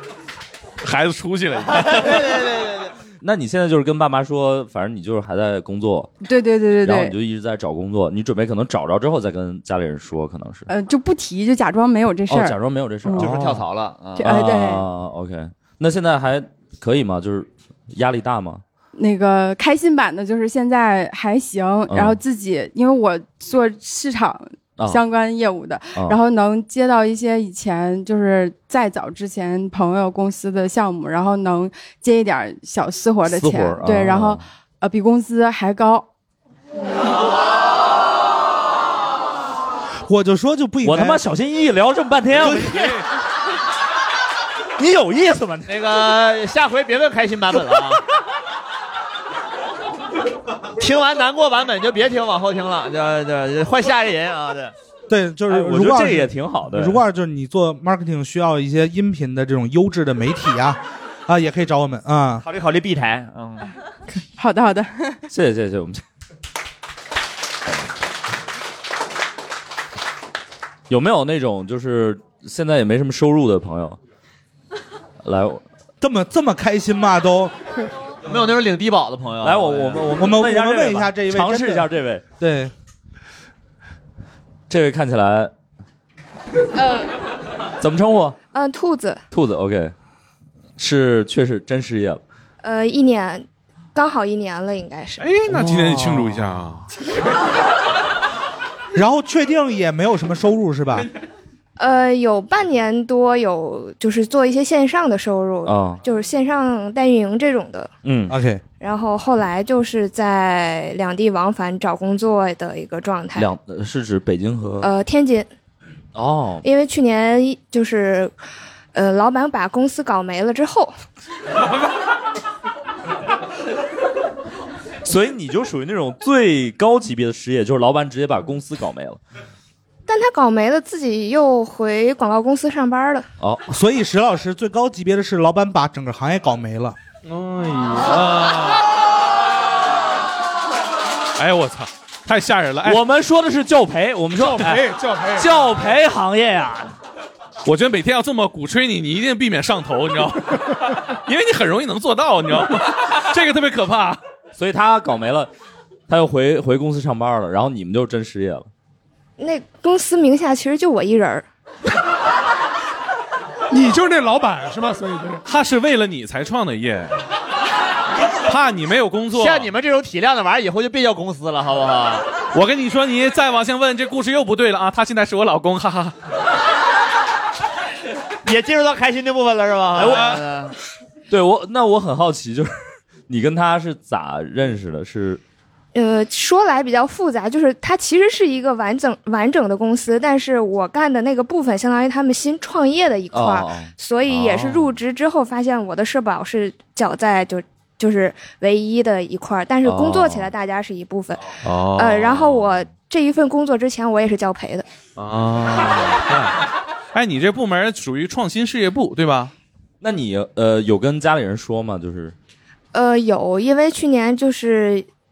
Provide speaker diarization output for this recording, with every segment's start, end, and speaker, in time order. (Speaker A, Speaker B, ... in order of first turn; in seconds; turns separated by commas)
Speaker A: 0.8-2.4, Speaker B: 1.6-2.9, Speaker C: 3.2-6.1, Speaker D: 6.2-7.1, Speaker C: 6.8-10.7, Speaker D: 10.7-13.3, Speaker C: 12.3-13.6, Speaker B: 13.2-14.2, Speaker D: 14.2-14.9, Speaker C: 14.2-18.6, Speaker D: 18.9-36.1, Speaker C: 21.9-22.2, Speaker C: 24.8-25.0, Speaker C: 33.2-34.4, Speaker E: 40.1-41.2, Speaker C: 40.8-43.0, Speaker C: 44.8-45.7, Speaker B: 45.7-48.0, Speaker B: 50.8-54.7, Speaker E: 55.1-62.4, Speaker C: 55.5-57.0, Speaker B: 62.4-63.6, Speaker D: 64.3-65.2, Speaker C: 65.3-66.0, Speaker C: 70.9-74.0, Speaker C: 75.2-75.6, Speaker E: 76.0-77.5, Speaker B: 78.2-80.1, Speaker C: 79.4-82.2, Speaker E: 80.2-81.9, Speaker E: 82.4-82.7, Speaker C: 84.7-85.5, Speaker F: 86.8-87.1, Speaker C: 87.8-88.4, Speaker F: 88.5-89.2, Speaker C: 89.3-89.9, Speaker C: 90.8-92.2, Speaker F: 92.6-95.3, Speaker A: 95.2-96.9, Speaker E: 98.9-101.1, Speaker F: 101.8-107.9, Speaker C: 105.7-106.0, Speaker C: 108.0-108.4, Speaker E: 108.3-108.6, Speaker F: 108.8-113.5, Speaker C: 113.3-114.9, Speaker F: 114.8-115.5, Speaker C: 116.1-116.6, Speaker F: 116.6-118.3, Speaker F: 118.9-120.9, Speaker C: 125.0-129.2, Speaker F: 130.1-133.3, Speaker C: 133.4-133.7, Speaker E: 133.7-137.0, Speaker A: 137.2-138.8, Speaker A: 141.4-143.0, Speaker C: 142.8-146.9, Speaker G: 144.3-145.8, Speaker A: 147.6-154.2, Speaker C: 154.6-155.5, Speaker C: 156.1-158.7, Speaker F: 159.4-161.4, Speaker G: 163.7-165.4, Speaker A: 165.4-167.2, Speaker A: 168.4-169.7, Speaker B: 169.3-172.3, Speaker A: 172.5-176.1, Speaker B: 178.4-180.7, Speaker C: 180.0-180.3, Speaker C: 181.3-182.7, Speaker C: 183.3-185.4, Speaker F: 185.9-204.8, Speaker C: 193.3-194.9, Speaker C: 199.8-200.5, Speaker A: 201.6-202.6, Speaker A: 205.2-206.5, Speaker A: 207.1-209.5, Speaker C: 210.0-212.3, Speaker F: 212.9-215.1